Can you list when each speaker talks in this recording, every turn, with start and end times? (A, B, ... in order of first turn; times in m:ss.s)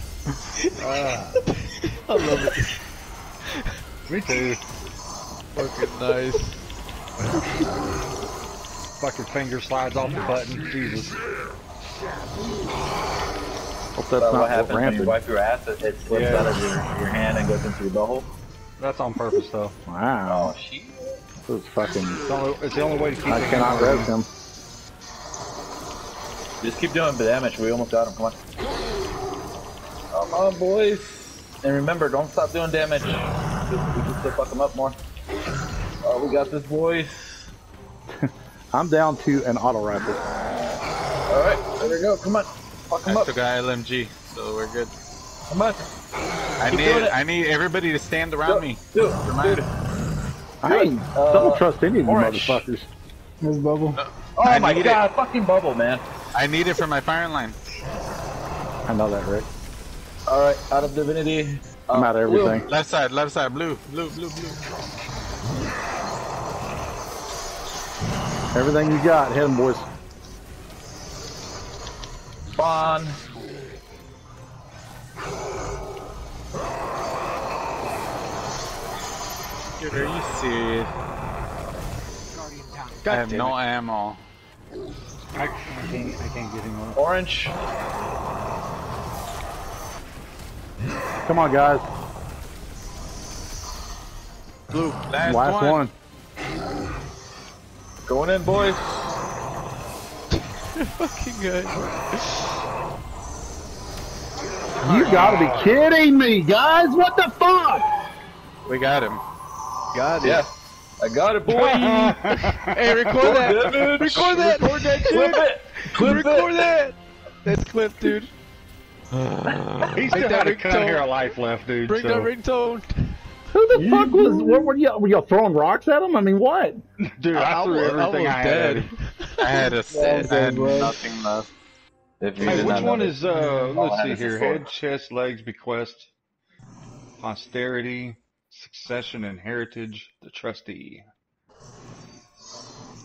0:00.8-0:01.4 A
0:02.1-0:02.7 B
0:04.1-0:04.6 A
0:05.5-0:06.6 B
0:09.0-0:11.2 A
0:14.0-0:15.2 C
0:14.2-0:18.3 D
0:16.1-0:16.5 A
0:18.8-0:19.7 A
0:19.9-0:20.5 C
0:20.3-0:21.2 D
0:21.5-0:22.2 C
0:22.3-0:24.1 A
0:23.2-0:24.3 C
0:26.6-0:28.4 D
0:30.1-0:35.0 D
0:36.0-0:37.5 D
0:38.2-0:40.2 C
0:41.3-0:43.3 D
0:43.0-0:44.9 E
0:45.5-0:45.8 D
0:46.6-0:49.6 E
0:46.6-0:47.2 D
0:48.4-0:49.7 D
0:50.6-0:52.9 C
0:50.6-0:52.6 D
0:53.4-0:54.0 C
0:53.9-0:55.0 E
0:54.4-0:56.0 D
0:56.3-0:57.6 E
0:58.9-0:59.5 C
1:00.3-1:02.6 D
1:01.9-1:02.7 C
1:02.6-1:04.6 E
1:08.5-1:09.9 C
1:12.6-1:13.2 D
1:19.8-1:20.9 E
1:23.0-1:23.6 B
1:23.0-1:24.2 E
1:25.3-1:27.0 A
1:26.9-1:27.6 D
1:31.2-1:31.8 C
1:34.7-1:35.8 E
1:35.2-1:35.9 C
1:38.1-1:38.8 D
1:40.8-1:42.3 B
1:44.8-1:45.5 E
1:44.8-1:47.8 C
1:48.6-1:49.2 E
1:49.9-1:50.5 B
1:50.2-1:52.2 D
1:51.5-1:53.6 A
1:52.3-1:55.4 B
1:53.2-1:56.5 D
1:55.9-1:58.3 B
1:59.9-2:02.3 A
2:00.1-2:01.2 B
2:01.8-2:03.2 B
2:03.5-2:06.8 C
2:03.7-2:04.6 A
2:07.0-2:08.9 A
2:07.3-2:10.3 B
2:09.4-2:11.5 E
2:09.9-2:10.8 D
2:12.2-2:14.7 D
2:12.4-2:16.1 A
2:17.2-2:21.0 A